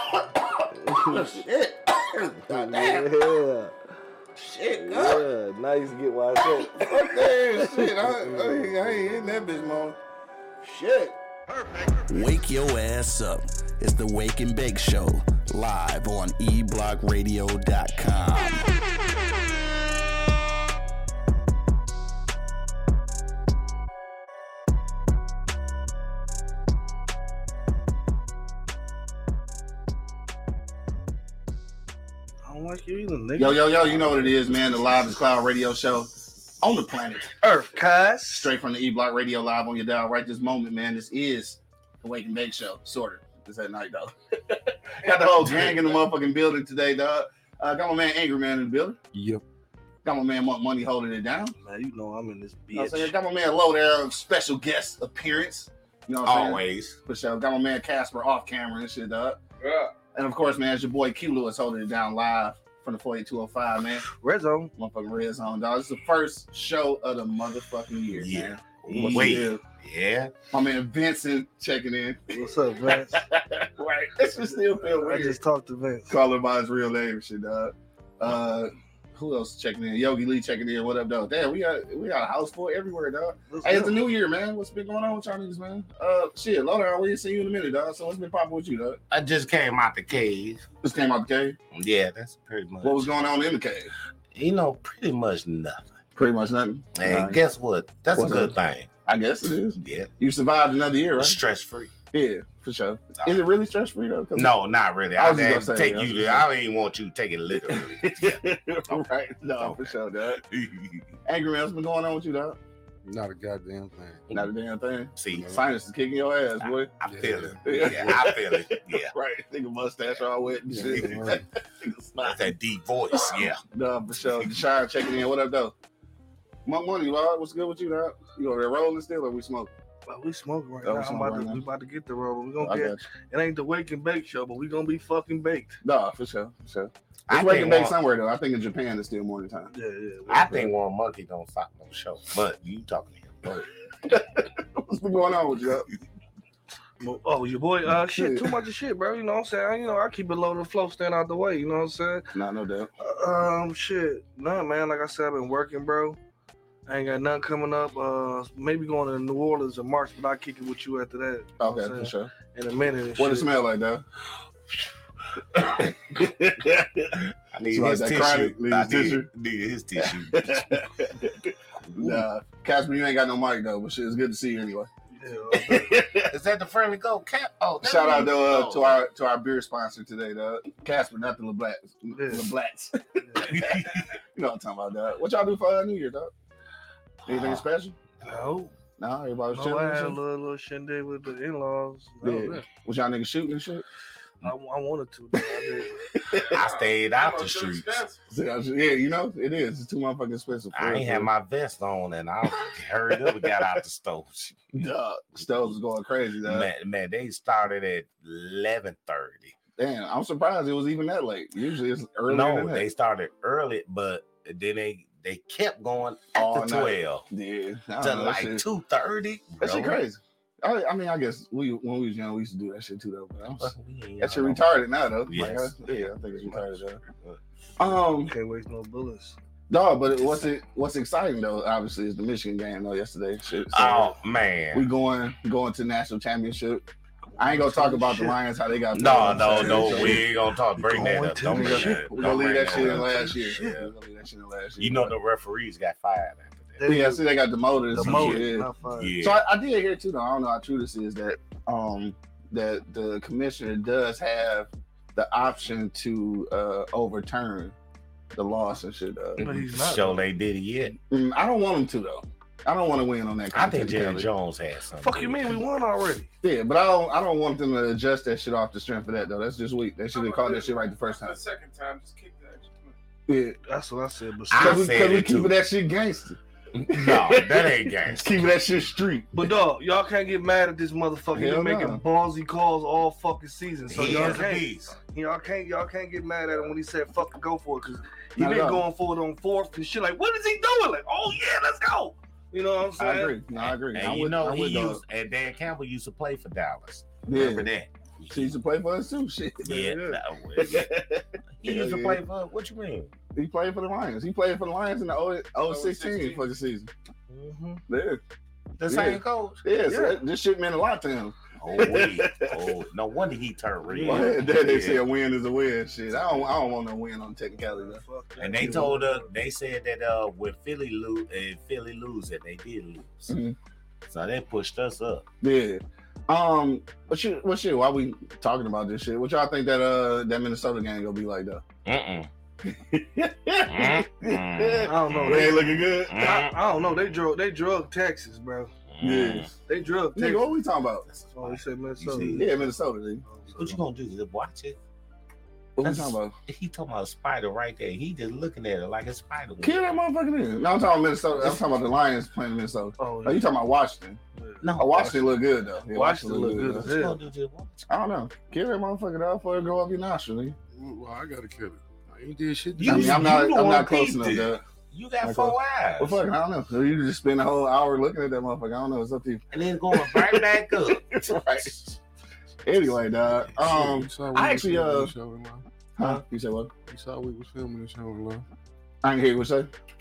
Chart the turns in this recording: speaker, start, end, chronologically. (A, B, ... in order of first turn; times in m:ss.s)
0:00.8-0:01.5 A
0:01.0-0:03.1 B
0:02.4-0:03.8 A
0:04.4-0:09.0 A
0:04.6-0:05.2 B
0:06.6-0:10.0 B
0:10.6-0:11.2 A
0:12.1-0:18.6 C
0:32.4-0:34.4 A
0:33.4-0:37.4 B
0:37.4-0:38.5 A
0:38.3-0:44.1 B
0:44.9-0:49.0 B
0:45.4-0:45.9 D
0:49.1-0:49.4 E
0:50.0-0:51.5 B
0:51.6-0:53.1 A
0:52.7-0:59.4 B
0:56.2-0:57.0 D
0:59.6-0:59.9 F
1:00.1-1:04.0 B
1:04.0-1:04.7 A
1:04.8-1:09.6 B
1:08.2-1:10.3 D
1:09.0-1:09.3 A
1:10.5-1:15.4 B
1:12.3-1:13.2 A
1:14.8-1:16.2 A
1:16.1-1:29.0 B
1:23.5-1:24.1 A
1:29.1-1:30.6 D
1:30.8-1:31.6 B
1:31.7-1:33.1 D
1:32.8-1:33.9 B
1:34.3-1:36.0 D
1:36.2-1:37.4 B
1:36.9-1:38.9 D
1:38.1-1:38.5 B
1:39.0-1:41.4 B
1:39.8-1:40.1 D
1:41.2-1:41.9 D
1:42.1-1:44.5 B
1:44.3-1:49.0 D
1:45.2-1:46.5 B
1:47.5-1:50.4 B
1:49.6-1:50.0 D
1:50.5-1:51.0 D
1:51.3-1:52.6 B
1:53.0-1:54.2 E
1:54.3-1:56.9 B
1:55.2-1:55.6 D
1:56.6-1:59.1 D
1:57.0-1:58.2 E
1:57.6-2:02.5 B
2:00.7-2:01.4 E
2:00.9-2:01.3 D
2:02.2-2:03.6 D
2:03.1-2:05.7 B
2:06.6-2:09.7 B
2:10.0-2:15.8 A
2:10.8-2:11.6 B
2:12.6-2:13.0 B
2:15.8-2:19.7 B
2:17.3-2:17.9 D
2:19.7-2:20.7 A
2:20.3-2:23.5 D
2:23.4-2:25.9 B
2:27.0-2:32.3 A
2:27.9-2:28.5 B
2:32.3-2:32.9 B
2:33.0-2:36.2 A
2:36.8-2:43.5 A
2:41.6-2:42.3 B
2:43.2-2:44.0 B
2:45.5-2:49.3 B
2:47.5-2:50.7 D
2:50.0-2:54.9 B
2:55.1-2:55.9 A
2:55.5-2:56.3 B
2:56.3-2:59.0 D
2:57.8-3:06.3 B
3:02.1-3:02.5 A
3:03.4-3:04.1 D
3:07.2-3:07.6 D
3:07.2-3:08.0 B
3:08.2-3:08.7 D
3:08.2-3:08.7 A
3:09.0-3:10.2 B
3:09.5-3:12.6 A
3:12.2-3:13.8 B
3:14.4-3:16.0 A
3:16.1-3:16.6 B
3:16.3-3:18.2 F
3:16.5-3:18.0 D
3:18.3-3:21.3 B
3:20.7-3:24.6 D
3:23.2-3:23.7 B
3:24.7-3:26.7 B
3:25.4-3:25.7 D
3:26.4-3:29.5 D
3:29.8-3:32.8 B
3:32.3-3:37.2 D
3:36.3-3:38.6 B
3:38.0-3:40.0 D
3:39.6-3:47.0 B
3:43.6-3:44.6 D
3:45.3-3:47.4 D
3:47.8-3:48.3 B
3:48.2-3:49.4 A
3:49.7-3:54.1 B
3:53.7-3:54.9 D
3:54.7-3:56.9 B
3:57.4-3:58.4 A
3:57.4-4:00.2 B
3:58.9-4:03.6 D
3:59.2-4:03.9 A
4:01.4-4:05.1 B
4:04.8-4:06.8 D
4:06.8-4:07.3 A
4:06.8-4:08.7 B
4:07.9-4:09.1 A
4:08.0-4:09.4 D
4:09.2-4:17.7 B
4:18.3-4:19.4 B
4:19.4-4:20.2 A
4:19.4-4:21.0 D
4:21.1-4:24.3 B
4:23.5-4:25.6 D
4:25.0-4:26.3 A
4:26.4-4:31.4 B
4:30.1-4:32.9 F
4:33.3-4:33.6 B
4:33.7-4:34.9 A
4:34.5-4:35.6 D
4:34.6-4:36.4 B
4:36.7-4:38.4 D
4:36.9-4:39.5 B
4:39.3-4:53.4 A
4:41.3-4:42.0 B
4:43.9-4:44.9 D
4:44.1-4:44.4 B
4:48.4-4:48.8 B
4:53.0-4:55.0 B
4:53.6-4:58.6 D
4:57.3-4:57.7 B
4:58.3-4:59.8 B
4:59.6-5:00.9 D
4:59.7-5:00.1 A
5:00.6-5:02.2 B
5:01.6-5:03.1 D
5:03.3-5:06.9 B
5:05.7-5:06.4 F
5:07.3-5:07.8 A
5:07.9-5:08.2 B
5:08.8-5:09.6 D
5:08.9-5:12.7 B
5:09.9-5:10.2 A
5:11.6-5:15.0 D
5:13.9-5:14.4 A
5:14.0-5:18.0 B
5:16.1-5:16.5 D
5:17.5-5:19.3 A
5:18.4-5:23.4 D
5:18.6-5:18.8 B
5:23.3-5:23.6 B
5:24.1-5:25.2 D
5:25.4-5:31.6 B
5:31.8-5:32.3 D
5:32.6-5:36.4 B
5:33.7-5:37.2 D
5:34.9-5:38.7 A
5:38.9-5:39.5 D
5:39.0-5:39.5 B
5:39.6-5:40.5 A
5:40.1-5:41.0 B
5:41.1-5:42.5 D
5:41.3-5:42.7 A
5:42.3-5:43.2 B
5:43.2-5:43.8 A
5:43.5-5:44.8 D
5:45.8-5:46.3 B
5:45.8-5:49.8 D
5:49.6-5:54.2 B
5:53.0-5:53.5 A
5:54.3-5:55.2 A
5:54.6-5:55.2 D
5:54.8-5:56.9 B
5:55.9-5:57.2 A
5:56.7-5:57.8 D
5:57.9-6:00.6 B
6:00.7-6:03.3 E
6:02.8-6:06.2 D
6:02.8-6:04.6 B
6:05.2-6:12.0 B
6:09.5-6:11.0 D
6:12.6-6:15.1 B
6:13.6-6:15.6 E
6:16.0-6:16.7 B
6:16.9-6:18.4 E
6:19.0-6:19.7 B